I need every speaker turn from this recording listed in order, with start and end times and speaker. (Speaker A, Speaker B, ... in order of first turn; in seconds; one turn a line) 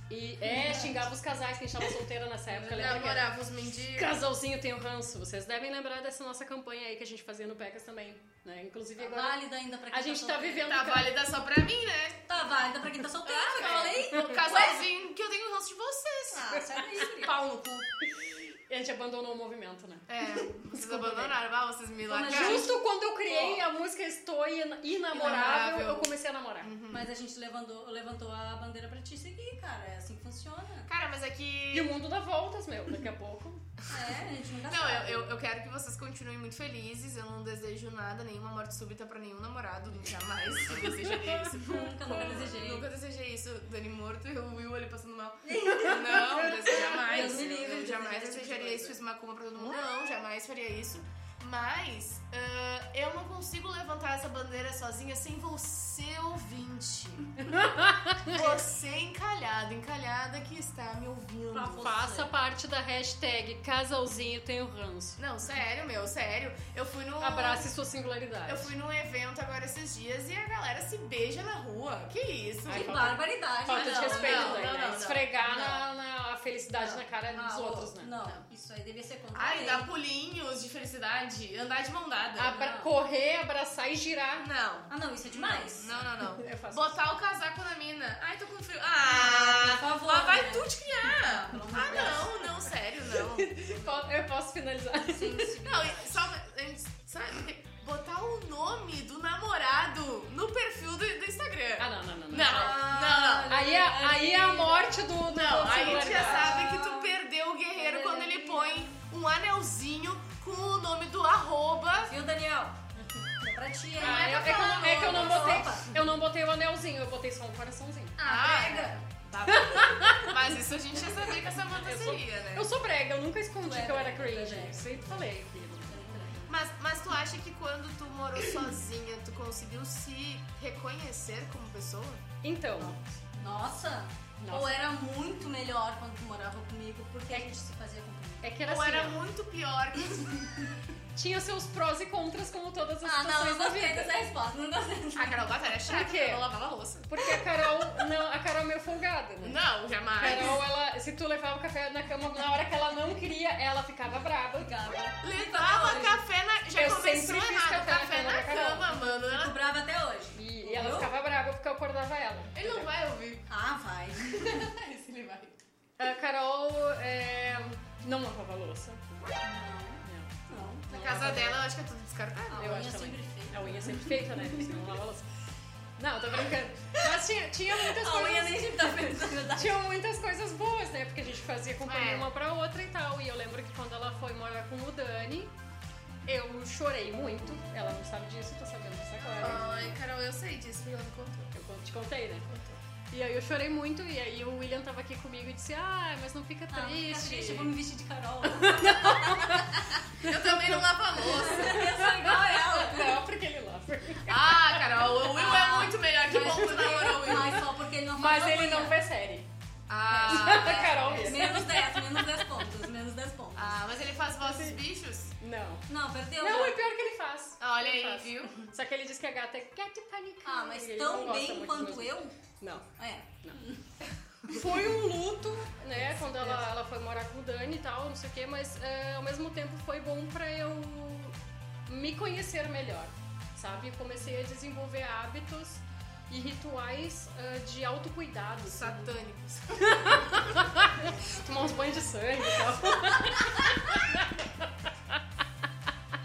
Speaker A: 0.1-3.3
Speaker B: 0.5-1.1
Speaker B: 2.5-3.1
Speaker C: 2.7-4.2
Speaker A: 3.9-11.2
Speaker B: 9.0-10.8
Speaker C: 10.7-12.4
Speaker B: 12.3-14.8
Speaker C: 13.2-17.9
Speaker A: 13.6-14.3
Speaker B: 16.3-17.4
Speaker A: 18.1-20.1
Speaker C: 20.1-22.7
Speaker A: 20.7-21.4
Speaker B: 22.1-22.7
Speaker A: 22.3-26.7
Speaker C: 23.3-23.6
Speaker C: 25.1-27.1
Speaker B: 25.2-25.6
Speaker B: 26.9-30.9
Speaker C: 30.9-31.9
Speaker A: 31.7-33.7
Speaker B: 33.9-35.3
Speaker C: 34.7-57.4
Speaker B: 41.5-42.9
Speaker B: 45.4-49.0
Speaker A: 57.4-58.6
Speaker C: 58.2-61.9
Speaker B: 61.5-62.3
Speaker A: 61.8-65.2
Speaker C: 65.2-67.7
Speaker A: 67.2-68.7
Speaker C: 68.5-73.0
Speaker A: 72.7-78.2
Speaker B: 72.7-75.8
Speaker C: 73.7-75.3
Speaker B: 76.8-79.9
Speaker C: 79.3-82.5
Speaker A: 82.4-84.5
Speaker B: 82.5-82.9
Speaker C: 84.4-93.7
Speaker B: 84.9-86.0
Speaker A: 86.2-87.0
Speaker B: 89.1-92.4
Speaker A: 93.2-95.5
Speaker B: 95.0-96.3
Speaker C: 95.6-103.5
Speaker A: 101.8-102.8
Speaker B: 102.3-107.1
Speaker A: 103.5-106.6
Speaker C: 105.3-112.2
Speaker B: 107.7-109.0
Speaker B: 112.1-116.0
Speaker A: 114.0-118.2
Speaker C: 114.0-115.1
Speaker B: 118.2-119.0
Speaker C: 118.2-122.7
Speaker A: 119.5-120.4
Speaker A: 121.6-126.1
Speaker B: 123.6-125.3
Speaker B: 125.9-126.6
Speaker C: 126.5-132.2
Speaker A: 132.4-133.0
Speaker B: 132.8-138.5
Speaker A: 134.4-134.8
Speaker A: 138.4-139.2
Speaker C: 138.6-140.6
Speaker A: 141.1-144.2
Speaker B: 143.0-145.5
Speaker C: 145.1-147.4
Speaker A: 145.8-146.5
Speaker A: 147.1-149.6
Speaker C: 149.4-150.6
Speaker A: 150.2-154.7
Speaker B: 154.6-156.2
Speaker C: 155.2-159.6
Speaker A: 156.7-159.0
Speaker B: 158.9-161.1
Speaker A: 160.3-162.9
Speaker C: 162.5-163.4
Speaker B: 163.5-164.7
Speaker C: 164.2-165.6
Speaker A: 166.0-169.2
Speaker B: 169.4-170.9
Speaker A: 170.0-171.6
Speaker C: 170.9-172.7
Speaker B: 172.5-174.9
Speaker A: 172.6-175.3
Speaker A: 176.0-178.9
Speaker B: 177.8-179.8
Speaker A: 179.6-185.5
Speaker C: 181.8-182.3
Speaker A: 186.2-189.8
Speaker C: 189.4-191.5
Speaker A: 191.5-192.5
Speaker C: 192.5-192.8
Speaker A: 193.1-197.7
Speaker B: 196.7-200.0
Speaker A: 198.5-200.8
Speaker C: 200.2-201.9
Speaker B: 201.2-203.2
Speaker A: 201.6-205.1
Speaker C: 204.2-207.6
Speaker B: 205.3-208.9
Speaker A: 206.4-207.6
Speaker A: 208.1-209.5
Speaker C: 209.9-211.6
Speaker B: 210.1-213.8
Speaker A: 210.3-212.6
Speaker C: 213.6-215.3
Speaker A: 214.4-214.8
Speaker A: 215.4-215.8
Speaker B: 215.9-216.8
Speaker A: 216.4-222.9
Speaker C: 217.6-218.7
Speaker B: 220.4-222.4
Speaker B: 223.0-223.9
Speaker A: 224.5-231.3
Speaker B: 226.3-226.6
Speaker A: 231.9-239.2
Speaker C: 238.6-240.5
Speaker A: 239.8-244.6
Speaker B: 243.3-243.7